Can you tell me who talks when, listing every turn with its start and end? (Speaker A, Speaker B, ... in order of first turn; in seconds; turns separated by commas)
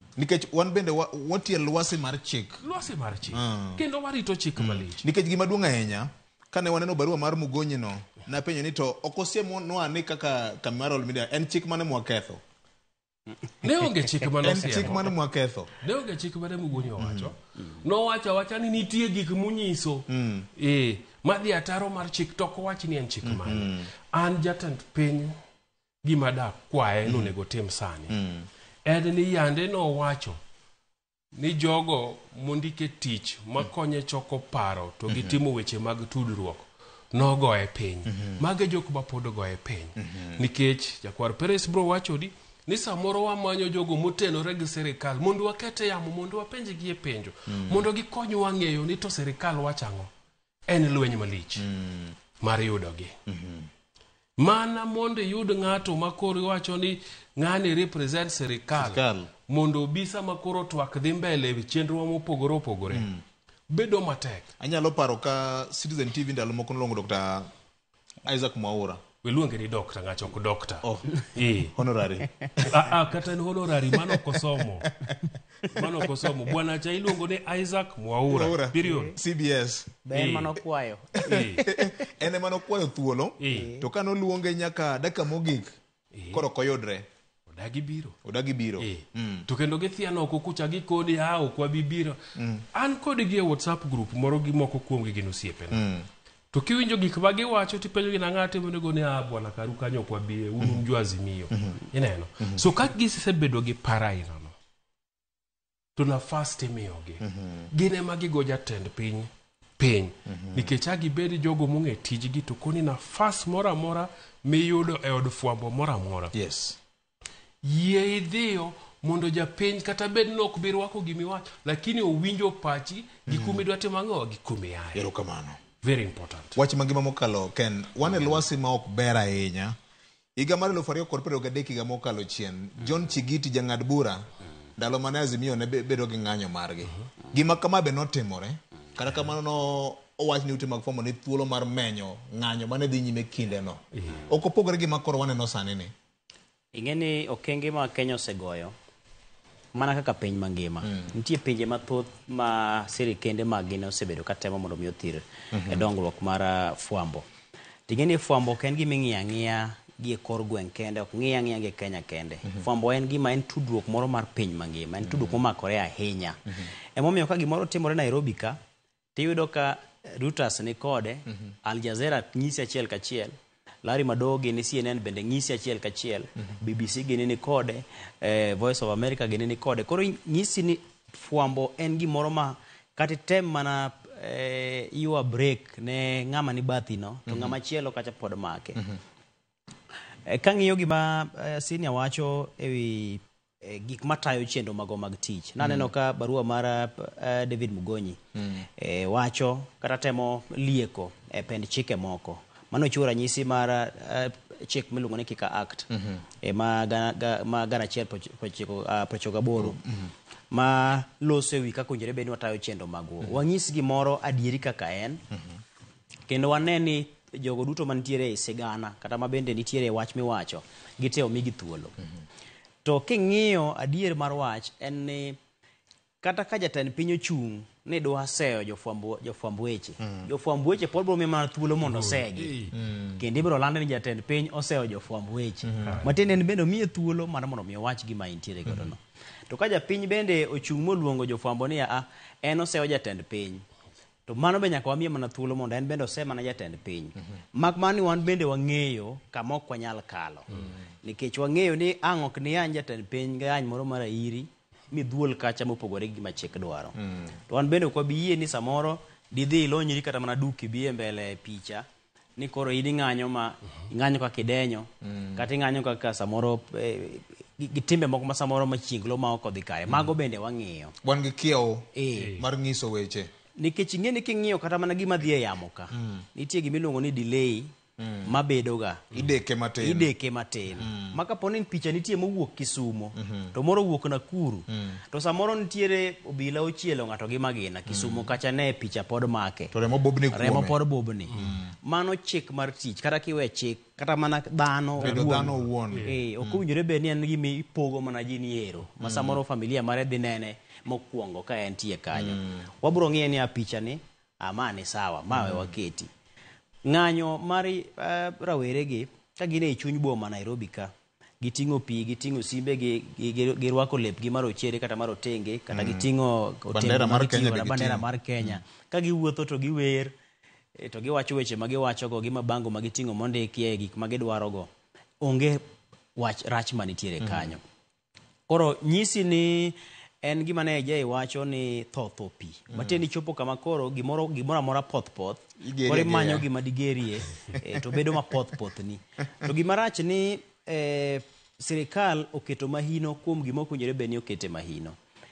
Speaker A: 0.2-2.6, Speaker B: 2.6-5.0, Speaker A: 3.3-3.8, Speaker A: 4.6-12.4, Speaker B: 13.6-15.2, Speaker A: 14.4-15.7, Speaker B: 15.8-20.1, Speaker A: 17.0-17.3, Speaker A: 20.1-20.5, Speaker B: 20.6-25.3, Speaker A: 23.2-23.9, Speaker B: 26.0-28.2, Speaker A: 27.1-27.3, Speaker A: 28.1-28.5, Speaker B: 28.9-30.4, Speaker B: 31.4-50.1, Speaker A: 35.1-35.4, Speaker A: 38.1-38.4, Speaker A: 40.0-40.5, Speaker A: 47.5-47.9, Speaker B: 50.7-51.7, Speaker A: 51.6-52.2, Speaker B: 52.4-53.1, Speaker A: 53.3-53.7, Speaker B: 54.4-63.1, Speaker A: 58.8-59.3, Speaker A: 62.9-63.2, Speaker B: 63.7-64.5, Speaker A: 64.6-67.5, Speaker A: 68.2-69.0, Speaker B: 69.2-71.7, Speaker A: 71.7-72.3, Speaker B: 72.6-74.9, Speaker B: 75.7-79.2, Speaker A: 78.3-80.0, Speaker C: 80.1-81.7, Speaker B: 80.1-80.5, Speaker B: 81.2-81.7, Speaker A: 81.3-85.8, Speaker B: 83.4-83.7, Speaker B: 86.2-86.5, Speaker A: 86.3-87.1, Speaker B: 87.5-88.2, Speaker A: 88.2-89.5, Speaker B: 88.8-92.2, Speaker A: 92.4-92.7, Speaker B: 92.7-95.8, Speaker A: 95.7-96.1, Speaker B: 96.5-104.5, Speaker B: 106.0-116.3, Speaker A: 107.2-107.7, Speaker A: 110.3-110.7, Speaker A: 116.3-116.8, Speaker B: 117.6-125.1, Speaker A: 123.3-123.6, Speaker A: 124.9-125.6, Speaker B: 125.8-126.6, Speaker A: 126.6-129.8, Speaker A: 130.4-134.3, Speaker A: 134.8-145.9, Speaker B: 144.0-144.2, Speaker C: 146.7-148.8, Speaker C: 149.7-157.3, Speaker A: 150.8-151.1, Speaker A: 155.5-155.9, Speaker C: 157.9-166.4, Speaker A: 165.1-165.3, Speaker C: 166.9-168.6, Speaker C: 169.2-188.8, Speaker A: 171.3-171.5, Speaker A: 187.3-187.6, Speaker A: 188.8-189.0, Speaker C: 190.3-198.2, Speaker A: 195.6-195.9, Speaker A: 198.3-198.7, Speaker C: 198.8-205.9, Speaker A: 205.9-206.2, Speaker C: 206.4-209.8, Speaker A: 209.6-210.1, Speaker C: 210.5-215.2, Speaker A: 215.3-215.6, Speaker C: 216.3-221.9, Speaker C: 222.8-225.4, Speaker C: 226.2-232.6, Speaker A: 230.0-230.3, Speaker B: 231.8-232.7, Speaker A: 232.7-233.2, Speaker C: 233.2-243.6, Speaker A: 235.6-236.1, Speaker B: 235.8-236.1, Speaker C: 244.3-250.5, Speaker C: 251.0-256.9, Speaker A: 257.0-257.3, Speaker C: 257.5-261.9, Speaker C: 262.4-270.9, Speaker A: 265.0-265.5, Speaker A: 271.0-273.3, Speaker C: 271.9-272.3, Speaker B: 272.2-272.4, Speaker C: 273.6-277.7, Speaker A: 275.9-276.3, Speaker A: 278.0-278.3, Speaker C: 278.3-279.1, Speaker A: 279.1-280.1, Speaker C: 279.8-289.7, Speaker A: 280.8-281.2, Speaker A: 283.1-283.6, Speaker A: 284.7-285.0, Speaker A: 287.9-288.3, Speaker A: 289.7-290.8, Speaker C: 290.3-291.3, Speaker A: 291.4-291.7, Speaker C: 291.8-306.1, Speaker A: 295.0-296.6, Speaker B: 295.0-296.2, Speaker A: 299.0-299.4, Speaker A: 302.1-302.7, Speaker A: 305.3-305.7, Speaker C: 306.9-320.1, Speaker A: 315.7-316.1, Speaker A: 316.7-318.6, Speaker C: 320.8-324.7, Speaker C: 325.2-325.6, Speaker C: 326.2-327.6, Speaker A: 327.2-327.6, Speaker C: 328.5-345.0, Speaker A: 332.7-333.0, Speaker A: 335.6-336.5